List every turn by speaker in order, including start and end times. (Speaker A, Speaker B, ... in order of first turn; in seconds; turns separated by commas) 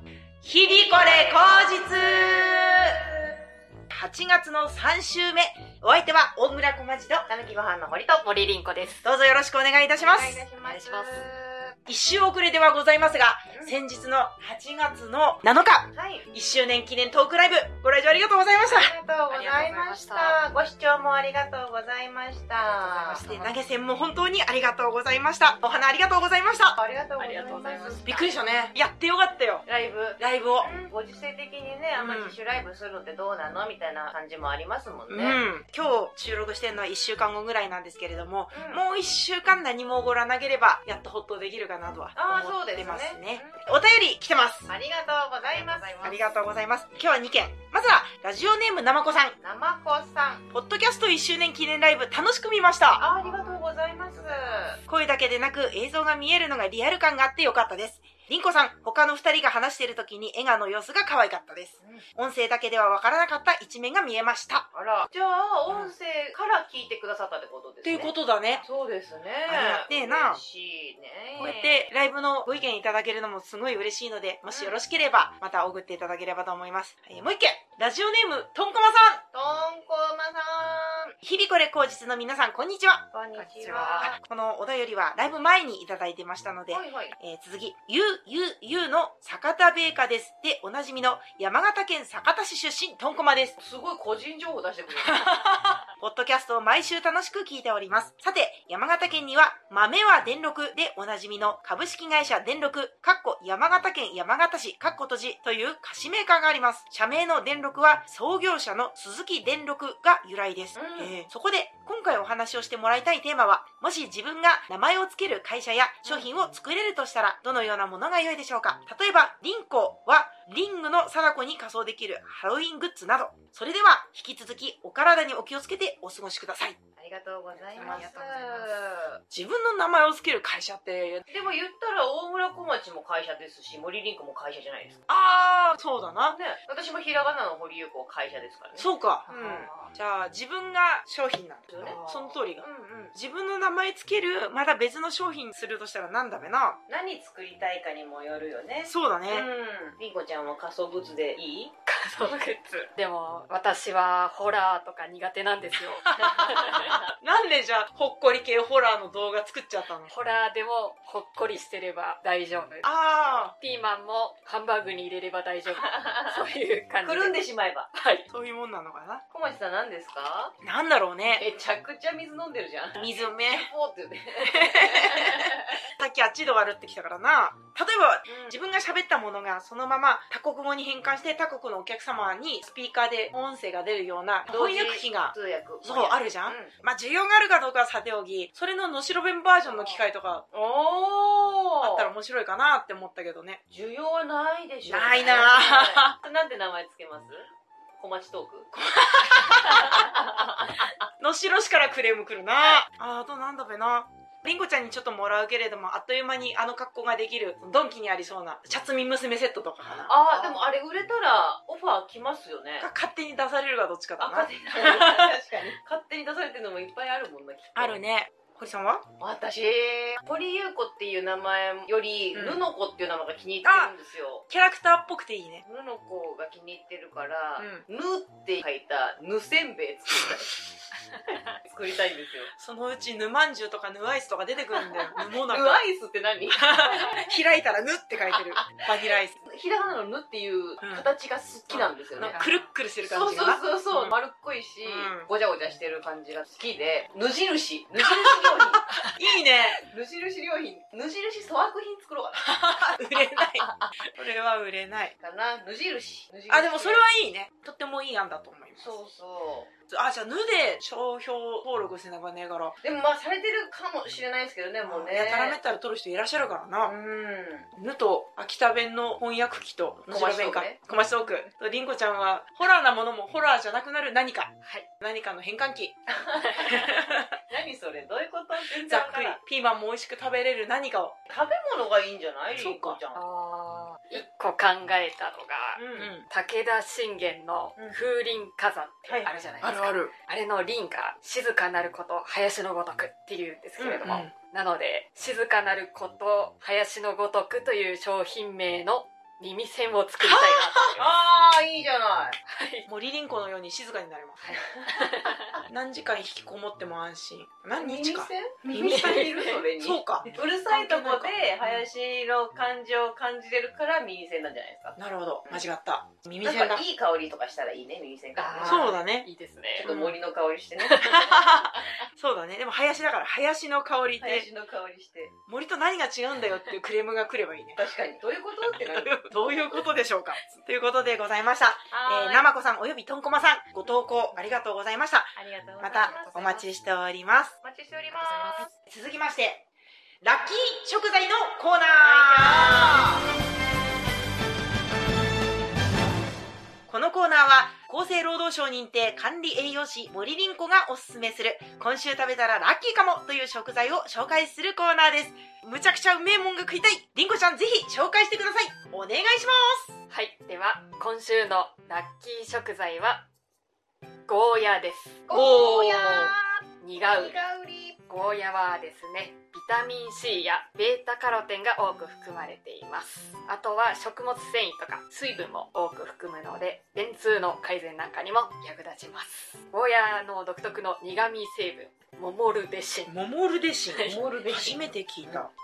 Speaker A: 0.4-3.2, Speaker B: 0.6-2.6, Speaker A: 3.9-7.3, Speaker B: 7.3-8.3, Speaker C: 8.2-9.1, Speaker A: 9.1-10.4, Speaker B: 10.0-11.8, Speaker C: 10.6-11.3, Speaker A: 11.9-18.9, Speaker B: 13.5-13.8, Speaker B: 15.9-16.3, Speaker B: 18.6-23.2, Speaker C: 19.3-20.4, Speaker C: 22.6-23.6, Speaker A: 23.2-26.8, Speaker B: 26.8-28.4, Speaker C: 27.2-28.1, Speaker A: 28.1-29.6, Speaker B: 29.7-35.4, Speaker A: 30.2-30.7, Speaker A: 32.0-32.4, Speaker A: 35.1-44.7, Speaker B: 38.5-38.8, Speaker B: 42.2-43.6, Speaker B: 44.7-46.2, Speaker C: 45.4-46.2, Speaker A: 46.0-49.4, Speaker B: 49.4-50.5, Speaker A: 50.5-53.0, Speaker B: 52.9-54.8, Speaker C: 53.1-53.6, Speaker A: 54.8-64.7, Speaker B: 61.8-62.1, Speaker B: 64.7-68.1, Speaker A: 67.8-68.7, Speaker B: 68.7-72.0, Speaker A: 69.5-70.4, Speaker A: 71.4-79.2, Speaker B: 74.5-74.8, Speaker B: 79.3-81.2, Speaker A: 81.2-83.0, Speaker B: 83.1-84.2, Speaker C: 83.3-84.2, Speaker A: 84.2-93.6, Speaker B: 86.7-87.2, Speaker B: 93.6-95.3, Speaker A: 94.9-126.8, Speaker B: 110.8-111.2, Speaker B: 127.0-129.2, Speaker C: 127.7-128.9, Speaker A: 127.8-128.1, Speaker A: 129.3-131.2, Speaker B: 131.3-135.0, Speaker A: 135.1-136.4, Speaker B: 136.3-139.8, Speaker A: 138.8-146.8, Speaker B: 141.7-143.1, Speaker B: 146.9-151.7, Speaker A: 148.9-149.5, Speaker C: 151.9-157.0, Speaker A: 155.9-160.1, Speaker B: 156.2-157.0, Speaker C: 160.1-167.4, Speaker A: 162.8-163.5, Speaker B: 165.8-166.4, Speaker B: 167.0-167.9, Speaker C: 167.9-168.3, Speaker A: 168.3-169.2, Speaker B: 169.3-170.6, Speaker A: 170.6-171.4, Speaker B: 171.2-175.8, Speaker A: 173.0-173.7, Speaker A: 174.4-190.5, Speaker B: 178.3-178.6, Speaker B: 184.5-186.7, Speaker B: 189.7-192.1, Speaker A: 191.8-193.6, Speaker B: 193.7-197.5, Speaker A: 194.9-196.2, Speaker B: 198.0-201.1, Speaker A: 199.0-200.2, Speaker A: 201.2-210.7, Speaker B: 210.1-212.9, Speaker A: 212.8-215.4, Speaker B: 214.2-218.0, Speaker A: 217.8-219.1, Speaker B: 219.2-224.5, Speaker A: 222.3-222.6, Speaker A: 223.6-223.9, Speaker A: 224.5-225.7, Speaker B: 225.7-230.6, Speaker A: 227.6-227.9, Speaker B: 231.6-232.5, Speaker A: 232.6-235.8, Speaker B: 234.7-237.2, Speaker A: 236.5-239.4, Speaker B: 238.3-242.4, Speaker A: 241.7-244.2, Speaker C: 242.3-242.7, Speaker B: 243.0-249.0, Speaker A: 244.8-245.3, Speaker A: 248.0-249.8, Speaker C: 248.9-249.2, Speaker B: 249.8-254.1, Speaker A: 252.4-255.1, Speaker B: 255.2-257.0, Speaker A: 256.5-259.0, Speaker B: 258.8-259.7, Speaker A: 259.9-262.8, Speaker B: 262.8-265.6, Speaker A: 264.9-266.9, Speaker B: 266.8-267.7, Speaker A: 267.8-276.0, Speaker B: 270.1-271.5, Speaker B: 276.1-279.4, Speaker C: 276.4-276.7, Speaker A: 276.6-277.3, Speaker A: 278.8-281.2, Speaker B: 281.3-283.2, Speaker A: 282.6-283.0, Speaker C: 283.1-301.2, Speaker B: 285.8-286.1, Speaker A: 286.0-286.3, Speaker B: 289.1-289.4, Speaker A: 289.6-290.1, Speaker A: 293.8-294.3, Speaker A: 300.2-300.9, Speaker B: 301.0-302.4, Speaker C: 302.5-302.9, Speaker A: 302.9-304.4, Speaker C: 304.4-305.6, Speaker B: 304.7-305.0, Speaker A: 305.7-311.9, Speaker B: 307.8-315.7, Speaker C: 308.8-309.6, Speaker A: 315.0-316.8, Speaker B: 316.4-319.0, Speaker C: 318.4-319.9, Speaker A: 318.6-319.3, Speaker B: 319.8-322.1, Speaker A: 319.8-320.2, Speaker C: 320.8-321.3, Speaker A: 321.0-324.5, Speaker B: 324.2-325.3, Speaker A: 325.5-327.8, Speaker B: 327.8-329.9, Speaker A: 328.7-337.5, Speaker B: 331.9-332.5, Speaker B: 333.9-334.4, Speaker B: 335.4-336.6, Speaker C: 335.9-336.6, Speaker B: 337.6-338.7, Speaker C: 338.2-338.7, Speaker A: 338.7-339.6, Speaker A: 340.2-343.2, Speaker B: 341.9-343.2, Speaker A: 346.9-360.0, Speaker C: 360.1-363.2, Speaker C: 364.3-367.4, Speaker B: 365.3-368.0, Speaker C: 368.1-383.1, Speaker A: 383.1-385.5, Speaker C: 383.9-384.2, Speaker B: 384.0-385.4